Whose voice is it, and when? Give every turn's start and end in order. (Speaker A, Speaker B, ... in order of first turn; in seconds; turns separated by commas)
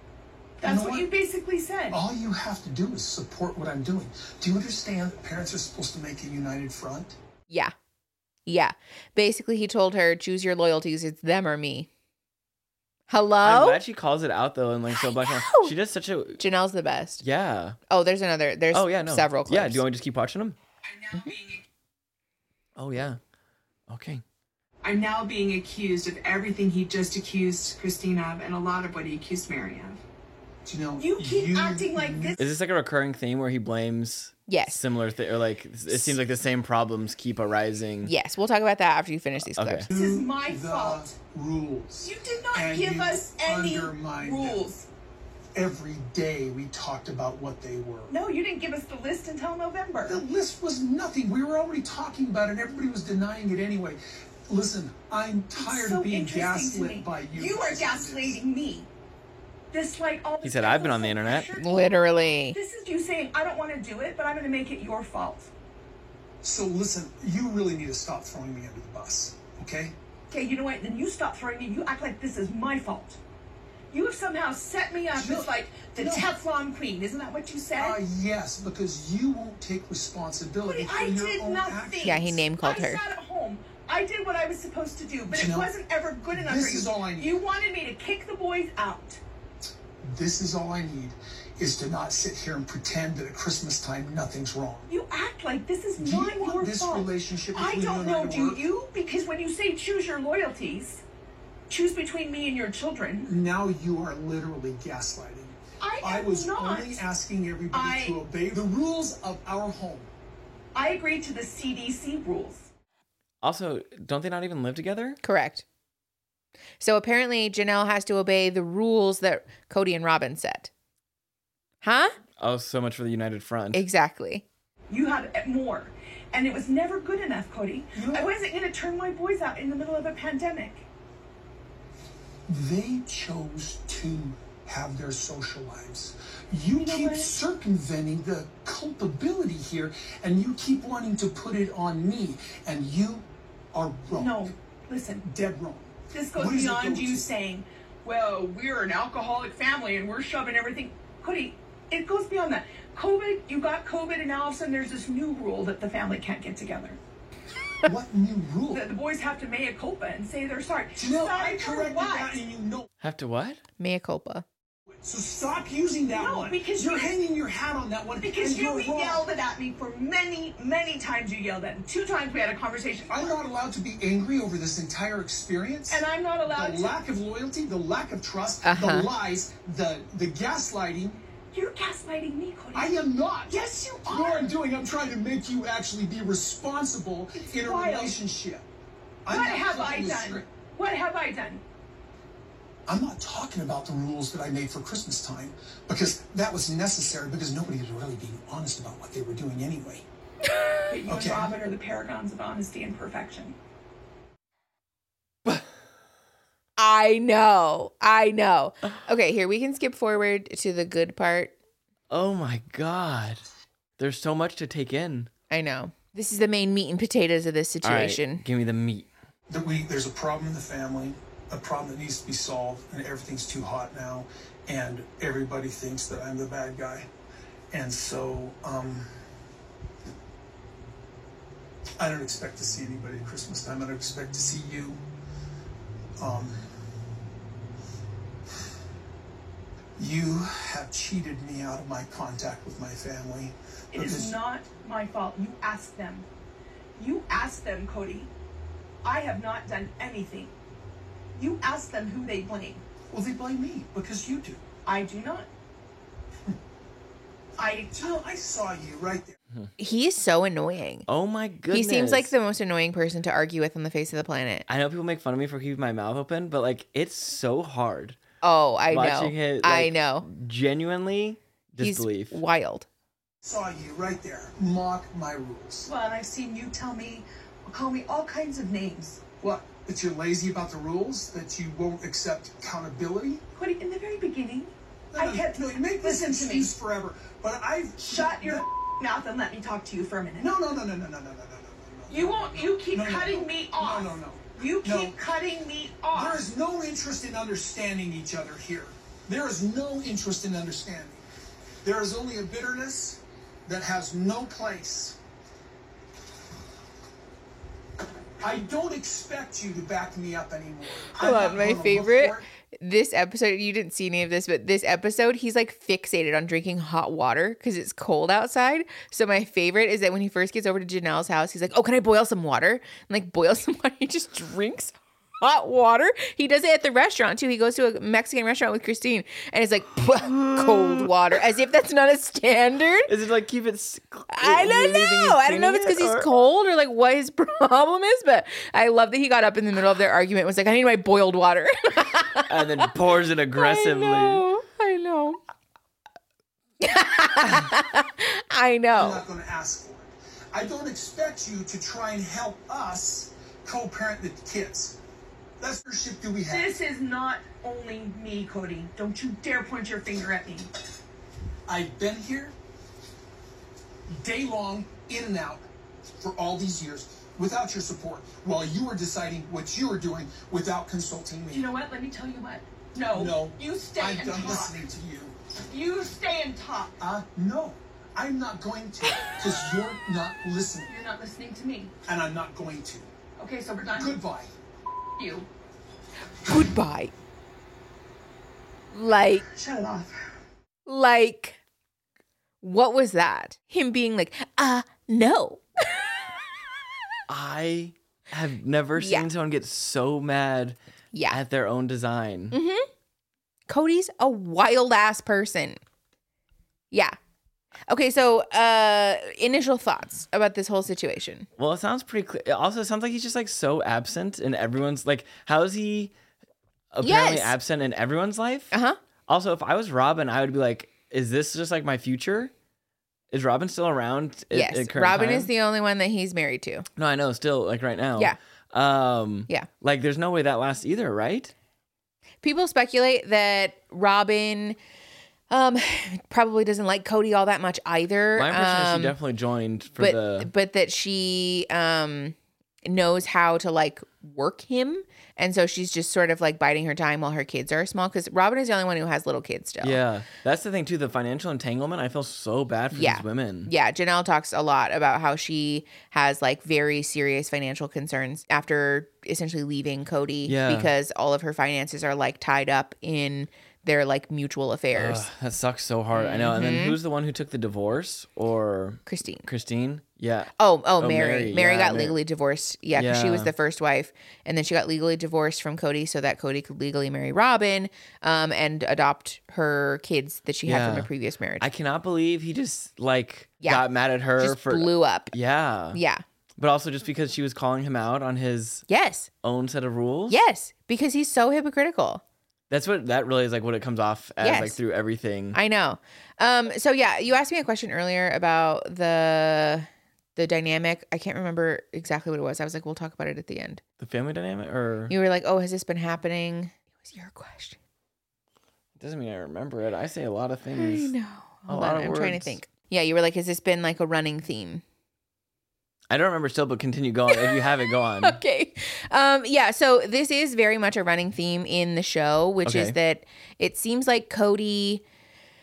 Speaker A: 0.6-2.0, Speaker B: 0.6-1.1, Speaker B: 1.9-7.2, Speaker C: 8.4-11.9, Speaker C: 13.1-13.8, Speaker D: 13.4-16.4, Speaker C: 15.0-15.7, Speaker C: 16.4-17.2, Speaker D: 17.2-17.8, Speaker C: 17.9-19.8, Speaker D: 18.7-20.6, Speaker A: 20.9-21.6, Speaker D: 22.8-23.2, Speaker D: 23.9-24.2, Speaker A: 24.8-30.0, Speaker B: 30.6-32.4, Speaker A: 31.0-32.4, Speaker D: 32.4-38.1, Speaker C: 34.5-34.8, Speaker C: 35.9-36.1, Speaker C: 38.0-39.9, Speaker D: 39.5-39.9, Speaker B: 39.9-44.6, Speaker A: 39.9-41.1, Speaker A: 42.0-44.9, Speaker B: 45.5-48.1, Speaker A: 48.1-50.2, Speaker B: 50.1-58.4, Speaker A: 55.6-58.9, Speaker A: 59.7-65.5, Speaker D: 60.4-61.5, Speaker C: 61.6-62.6, Speaker B: 66.4-69.9, Speaker A: 70.3-73.2, Speaker A: 73.9-78.0, Speaker B: 75.1-76.3, Speaker B: 77.8-82.4, Speaker A: 80.6-89.2, Speaker C: 82.0-83.0, Speaker B: 85.3-85.7, Speaker B: 86.3-87.3, Speaker B: 90.0-94.9, Speaker A: 94.9-101.0, Speaker B: 96.0-98.6, Speaker A: 101.7-103.3, Speaker B: 103.2-110.1, Speaker A: 105.8-107.0, Speaker A: 107.7-108.2, Speaker A: 110.7-112.7, Speaker D: 113.4-115.2, Speaker C: 115.2-115.6, Speaker C: 116.8-120.7, Speaker C: 121.8-122.1, Speaker D: 122.4-123.8, Speaker C: 123.7-124.4, Speaker A: 124.9-130.9, Speaker B: 127.9-128.3, Speaker B: 132.5-144.5, Speaker A: 136.8-137.3, Speaker A: 144.1-145.2, Speaker B: 145.2-147.2, Speaker A: 146.1-157.0, Speaker B: 157.8-158.8, Speaker A: 158.7-162.3, Speaker B: 161.0-162.9, Speaker D: 163.0-163.6, Speaker C: 163.8-164.4, Speaker B: 164.9-169.2, Speaker A: 166.1-167.2, Speaker A: 168.2-173.4, Speaker B: 173.1-181.2, Speaker A: 175.9-177.0, Speaker C: 178.6-179.1, Speaker A: 181.5-184.5, Speaker B: 182.7-183.5, Speaker B: 184.1-188.6, Speaker A: 187.4-188.2, Speaker B: 189.2-190.5, Speaker A: 189.3-191.6, Speaker B: 192.9-200.0, Speaker A: 200.9-203.6, Speaker B: 201.1-201.6, Speaker C: 206.8-211.6, Speaker D: 212.1-213.4, Speaker D: 214.0-215.3, Speaker C: 215.5-218.4, Speaker D: 217.8-219.1, Speaker B: 219.5-227.1, Speaker B: 227.7-229.1, Speaker B: 232.0-235.0, Speaker B: 236.2-236.6, Speaker B: 240.0-244.3, Speaker A: 243.9-246.2, Speaker A: 246.9-248.3, Speaker A: 249.0-250.5, Speaker A: 251.3-252.8, Speaker B: 253.1-254.6, Speaker A: 254.8-255.5, Speaker A: 257.6-258.1, Speaker B: 257.9-259.4, Speaker C: 259.8-261.1, Speaker D: 261.1-262.3, Speaker C: 261.7-264.6, Speaker D: 264.7-268.2, Speaker C: 268.4-270.2, Speaker D: 268.9-272.4, Speaker C: 271.8-272.9, Speaker B: 273.4-275.9, Speaker A: 275.9-279.2, Speaker B: 279.4-283.4, Speaker A: 283.5-286.7, Speaker B: 285.1-288.6, Speaker A: 288.0-290.6, Speaker B: 290.4-295.1, Speaker A: 292.1-296.4, Speaker B: 296.1-301.2, Speaker B: 301.8-305.2, Speaker B: 308.4-312.5, Speaker C: 311.2-333.1, Speaker D: 330.4-331.1, Speaker D: 333.1-336.3, Speaker C: 334.3-342.9, Speaker D: 342.5-344.4, Speaker C: 343.6-345.4, Speaker C: 346.8-349.2, Speaker B: 348.9-355.0, Speaker B: 355.6-356.7, Speaker A: 356.5-360.7, Speaker B: 361.7-362.5, Speaker B: 364.1-365.6, Speaker B: 366.2-371.6, Speaker A: 371.5-374.8, Speaker B: 373.1-375.3, Speaker A: 375.7-377.0, Speaker B: 377.0-380.9, Speaker A: 380.9-381.9, Speaker B: 382.1-383.1, Speaker A: 383.4-384.2, Speaker B: 383.9-384.5, Speaker A: 385.2-385.5, Speaker C: 386.4-387.1, Speaker C: 388.9-389.4, Speaker A: 389.5-390.1, Speaker C: 390.9-391.6, Speaker C: 392.6-396.1, Speaker D: 397.3-400.8, Speaker C: 399.0-399.3, Speaker C: 401.1-401.4, Speaker D: 401.3-402.6, Speaker C: 402.5-402.9, Speaker C: 403.7-405.8, Speaker C: 407.9-411.5, Speaker D: 411.6-416.1, Speaker D: 416.9-418.7, Speaker C: 417.0-417.5, Speaker C: 418.7-419.0, Speaker D: 419.3-422.5, Speaker D: 423.3-425.5, Speaker C: 424.5-426.9, Speaker D: 427.0-431.5, Speaker C: 432.4-434.8, Speaker C: 435.5-439.2, Speaker D: 438.4-440.5, Speaker C: 440.0-450.0, Speaker D: 449.8-453.7, Speaker C: 452.9-465.2, Speaker D: 460.4-460.9, Speaker D: 464.9-472.2, Speaker C: 466.1-467.0, Speaker C: 469.1-469.4, Speaker C: 470.6-481.7, Speaker D: 472.9-473.5, Speaker D: 480.6-481.1, Speaker D: 481.6-486.0, Speaker C: 484.4-485.3, Speaker C: 485.9-486.2, Speaker D: 486.6-488.9, Speaker C: 488.9-489.3, Speaker D: 489.4-490.4, Speaker C: 490.3-492.2, Speaker D: 492.7-495.6, Speaker C: 494.4-494.8, Speaker C: 495.5-503.8, Speaker D: 504.0-505.1, Speaker C: 505.1-507.8, Speaker D: 509.0-511.1, Speaker C: 510.7-514.8, Speaker D: 511.7-512.6, Speaker D: 516.1-518.4, Speaker C: 517.3-517.6, Speaker C: 518.2-525.0, Speaker D: 522.6-523.0